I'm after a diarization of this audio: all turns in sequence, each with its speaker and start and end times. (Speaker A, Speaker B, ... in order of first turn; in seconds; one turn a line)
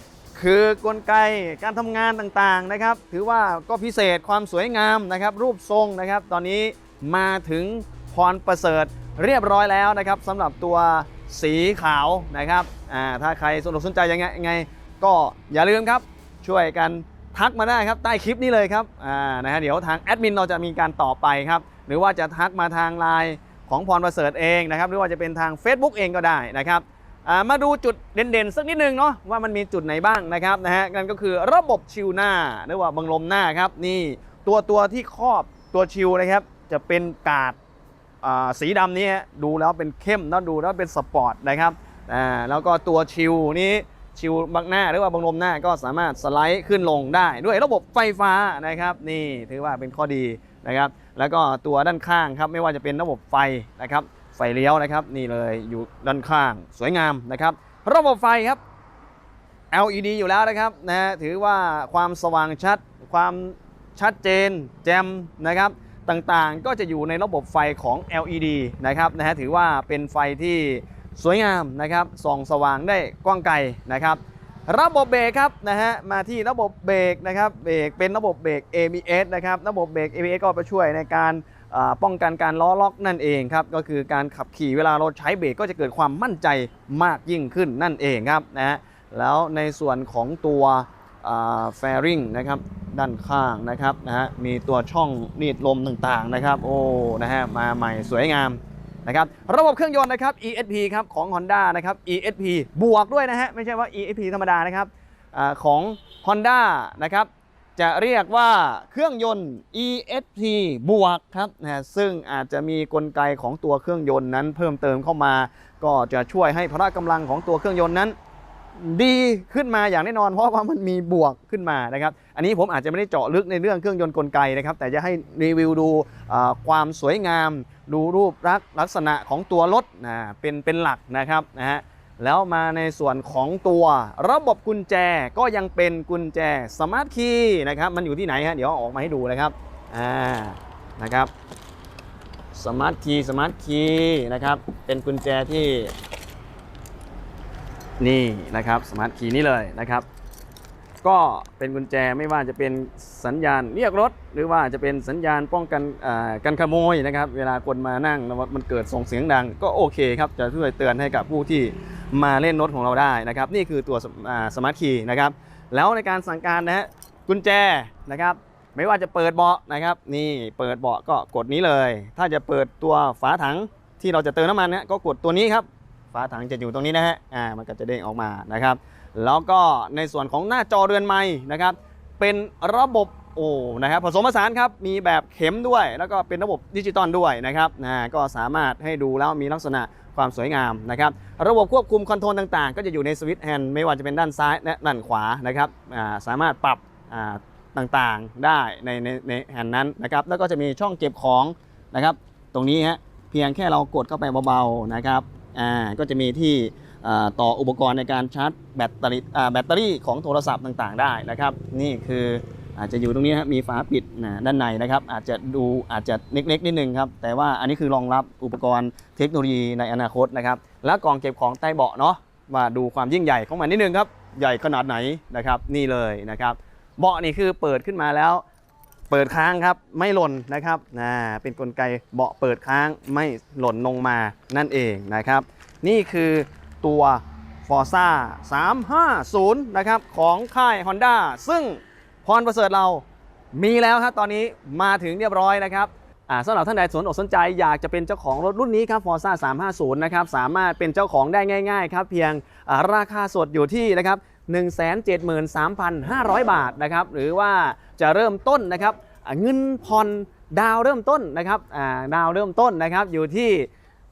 Speaker A: 0.3-37.6
Speaker A: 38.2-58.6
Speaker A: 59.7-118.1
Speaker A: 118.8-141.3
Speaker A: 142.5-145.9
Speaker A: 148.0-150.1
Speaker A: 151.0-228.4
Speaker A: 229.1-263.7